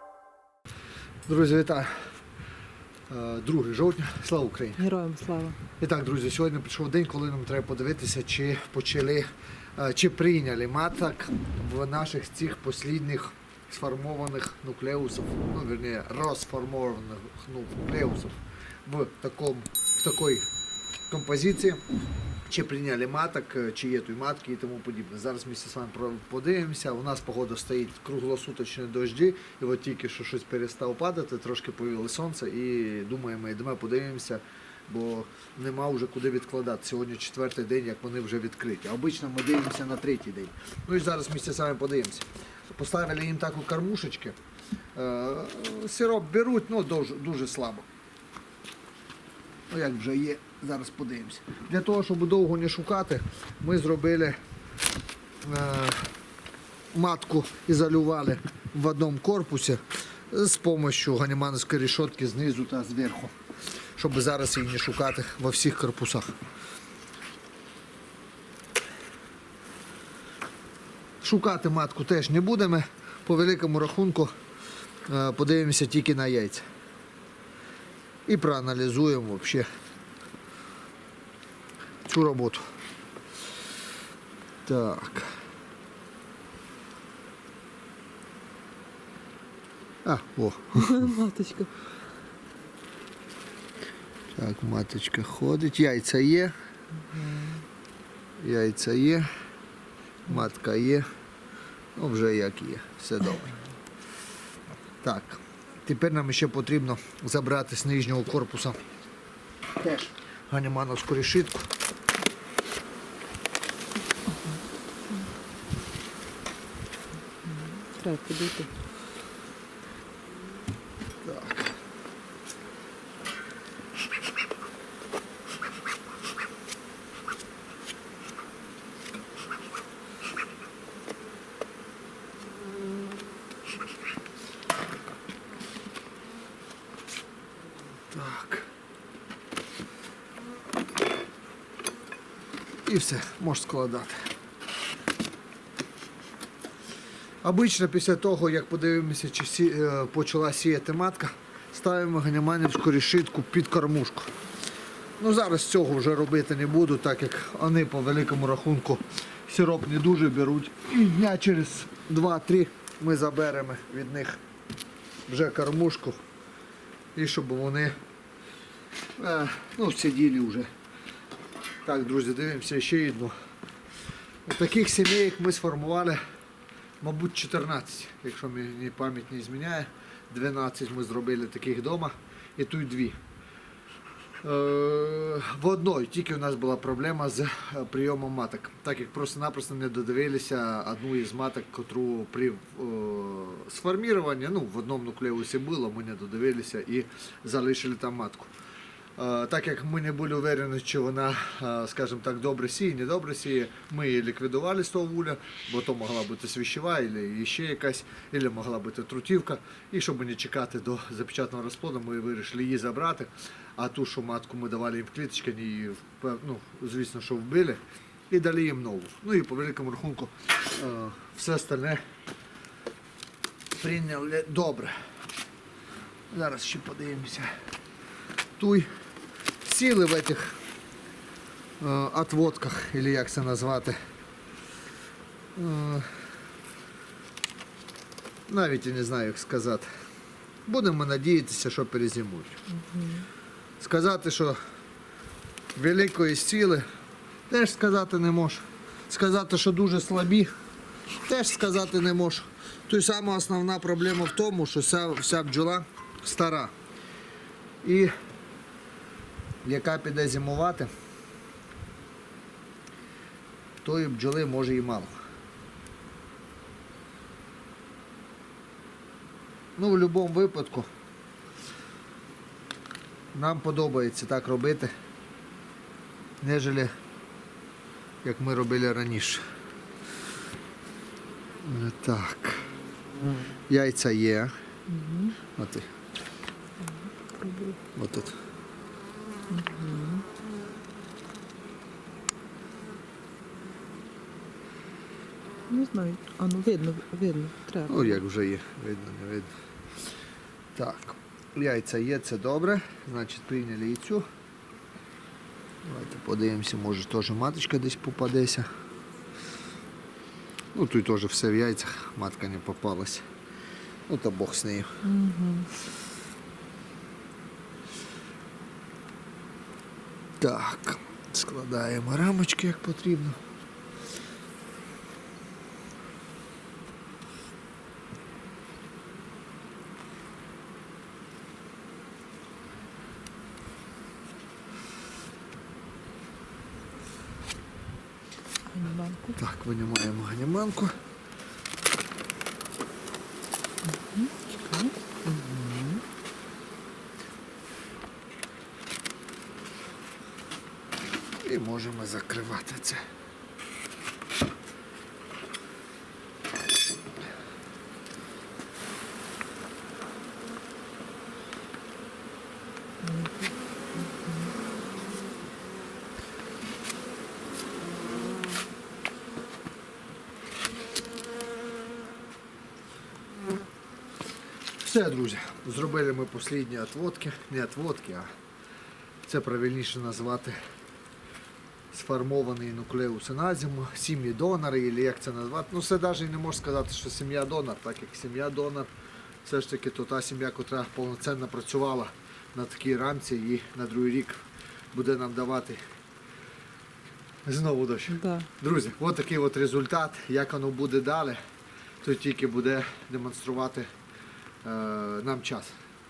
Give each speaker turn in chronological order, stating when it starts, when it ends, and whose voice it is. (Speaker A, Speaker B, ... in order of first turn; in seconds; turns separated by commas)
Speaker A: 1.3-1.9, Speaker A: 3.1-4.8, Speaker B: 4.8-5.6, Speaker A: 5.8-20.5, Speaker A: 21.1-21.8, Speaker A: 22.5-44.4, Speaker A: 44.9-47.9, Speaker A: 49.7-54.4, Speaker A: 55.4-56.1, Speaker A: 56.9-63.3, Speaker A: 64.0-66.3, Speaker A: 71.2-74.3, Speaker A: 75.1-76.6, Speaker A: 78.2-79.7, Speaker A: 82.0-82.6, Speaker A: 84.6-85.3, Speaker A: 90.0-91.0, Speaker B: 90.8-91.7, Speaker A: 94.3-96.5, Speaker B: 97.1-97.6, Speaker A: 98.4-99.3, Speaker A: 100.3-101.0, Speaker A: 102.0-103.6, Speaker A: 105.0-108.8, Speaker A: 109.8-111.7, Speaker B: 117.4-118.7, Speaker A: 121.2-121.7, Speaker A: 138.1-138.7, Speaker A: 142.8-144.2, Speaker A: 147.4-154.3, Speaker A: 155.2-164.4, Speaker A: 165.3-166.2, Speaker A: 167.1-167.9, Speaker A: 169.2-170.7, Speaker A: 171.8-173.3, Speaker A: 174.4-176.2, Speaker A: 177.0-183.2, Speaker A: 184.4-198.5, Speaker A: 199.2-222.0, Speaker A: 223.8-224.9, Speaker A: 226.3-227.5, Speaker A: 228.6-228.9, Speaker A: 229.6-230.5, Speaker A: 231.8-234.0, Speaker A: 235.6-236.1, Speaker A: 238.5-239.9, Speaker A: 240.7-242.6, Speaker B: 242.7-243.3, Speaker A: 243.8-244.6, Speaker A: 245.8-246.8, Speaker A: 247.5-250.5, Speaker A: 251.2-256.7, Speaker A: 257.8-258.1, Speaker A: 259.6-260.9, Speaker A: 263.8-265.1, Speaker A: 269.8-270.9, Speaker A: 273.3-274.9, Speaker A: 276.4-276.9, Speaker A: 278.2-279.4, Speaker A: 281.6-282.7, Speaker A: 283.7-284.5, Speaker B: 284.9-285.4, Speaker A: 285.6-285.9, Speaker B: 286.8-287.8, Speaker A: 287.9-288.4, Speaker B: 289.5-290.2, Speaker B: 295.7-298.2, Speaker A: 297.9-299.5, Speaker A: 300.7-304.2, Speaker A: 305.8-308.7, Speaker A: 310.7-313.2, Speaker A: 314.1-314.9, Speaker B: 315.0-315.7, Speaker A: 320.4-323.4, Speaker B: 338.7-339.4, Speaker A: 339.4-340.9, Speaker B: 343.9-346.0, Speaker A: 351.4-353.0, Speaker B: 363.0-364.5, Speaker A: 374.8-378.3, Speaker A: 379.2-380.6, Speaker A: 381.9-388.9, Speaker A: 389.4-394.4, Speaker A: 394.9-395.8, Speaker A: 397.4-401.4, Speaker B: 398.1-398.5, Speaker A: 402.0-403.9, Speaker A: 404.6-405.7